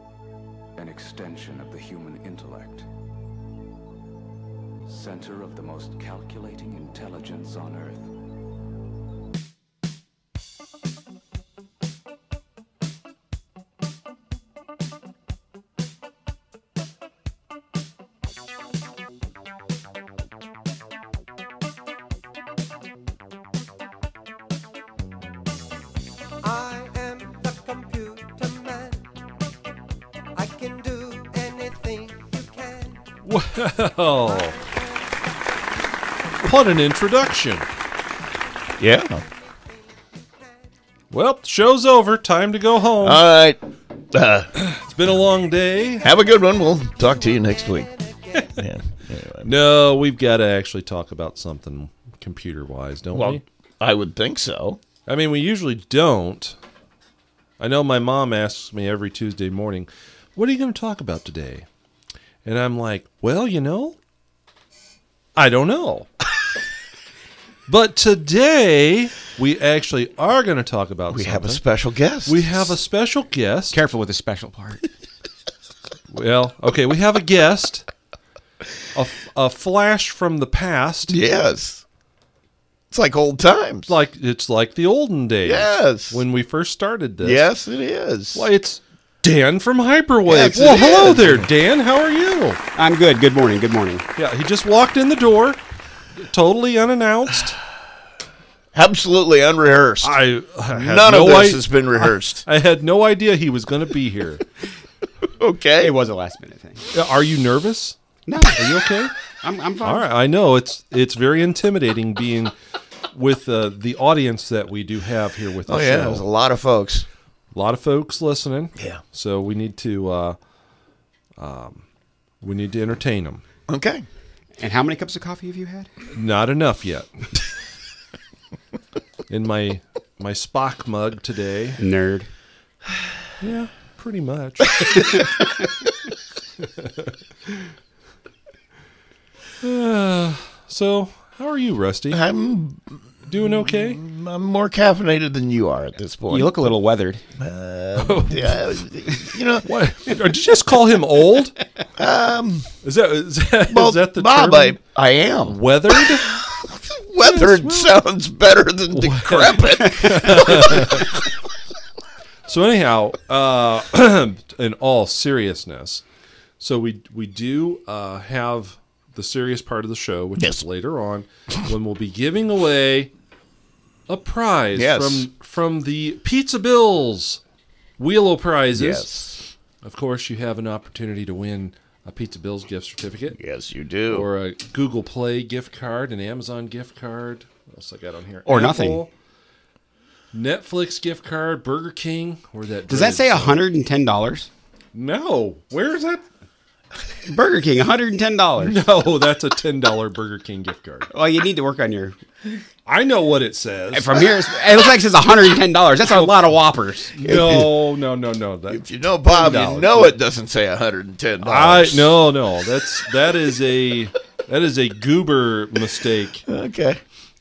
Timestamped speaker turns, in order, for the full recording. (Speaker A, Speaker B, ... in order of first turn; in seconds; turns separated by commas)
Speaker A: 0.8-2.9, Speaker A: 4.9-8.1, Speaker B: 26.4-29.1, Speaker B: 30.4-33.0, Speaker C: 33.3-34.5, Speaker C: 36.4-37.7, Speaker D: 38.8-39.2, Speaker C: 41.1-43.2, Speaker D: 43.0-43.6, Speaker D: 44.1-44.5, Speaker C: 44.6-46.1, Speaker D: 46.0-49.5, Speaker C: 49.5-53.4, Speaker D: 53.1-54.8, Speaker C: 55.1-56.6, Speaker C: 57.6-61.7, Speaker C: 62.5-64.0, Speaker C: 65.4-66.1, Speaker C: 67.7-71.6, Speaker D: 71.1-72.8, Speaker C: 72.2-73.8, Speaker E: 73.7-74.8, Speaker C: 76.1-77.9, Speaker C: 78.9-81.2, Speaker D: 81.1-81.8, Speaker D: 82.9-83.9, Speaker C: 83.9-87.5, Speaker D: 85.5-86.2, Speaker D: 87.2-88.5, Speaker C: 88.3-92.6, Speaker D: 90.3-91.5, Speaker E: 92.8-94.0, Speaker C: 94.2-95.6, Speaker C: 96.2-97.6, Speaker D: 98.7-100.2, Speaker C: 100.0-104.4, Speaker D: 100.7-102.5, Speaker D: 105.4-105.9, Speaker E: 105.8-106.9, Speaker C: 106.9-108.0, Speaker E: 108.3-110.0, Speaker C: 108.6-109.1, Speaker C: 109.8-112.5, Speaker C: 113.1-116.2, Speaker D: 115.7-117.1, Speaker C: 117.5-120.4, Speaker C: 121.4-121.8, Speaker C: 122.4-123.4, Speaker D: 123.7-124.1, Speaker E: 124.6-125.9, Speaker C: 126.1-127.2, Speaker C: 129.3-131.8, Speaker E: 131.8-132.3, Speaker C: 133.4-135.5, Speaker C: 136.8-137.1, Speaker C: 139.6-142.2, Speaker D: 142.1-146.7, Speaker C: 143.3-144.0, Speaker E: 146.3-147.2, Speaker D: 147.4-149.7, Speaker C: 148.0-148.8, Speaker C: 149.7-151.6, Speaker D: 152.0-152.7, Speaker C: 152.8-154.8, Speaker D: 153.7-161.2, Speaker C: 155.4-156.4, Speaker C: 157.2-158.0, Speaker C: 158.9-161.2, Speaker C: 162.5-166.0, Speaker C: 166.6-173.1, Speaker D: 170.4-170.6, Speaker C: 174.1-177.4, Speaker D: 174.8-175.3, Speaker C: 178.0-179.1, Speaker D: 178.7-179.5, Speaker C: 179.8-183.4, Speaker D: 183.3-184.3, Speaker C: 184.1-189.1, Speaker E: 188.5-189.0, Speaker C: 190.3-193.6, Speaker E: 192.9-194.5, Speaker C: 194.9-196.2, Speaker E: 197.3-198.8, Speaker C: 198.6-201.1, Speaker E: 201.1-202.2, Speaker C: 202.9-204.2, Speaker E: 203.9-207.2, Speaker C: 207.1-210.2, Speaker D: 207.2-207.7, Speaker D: 208.7-212.2, Speaker C: 211.4-216.5, Speaker D: 216.5-217.0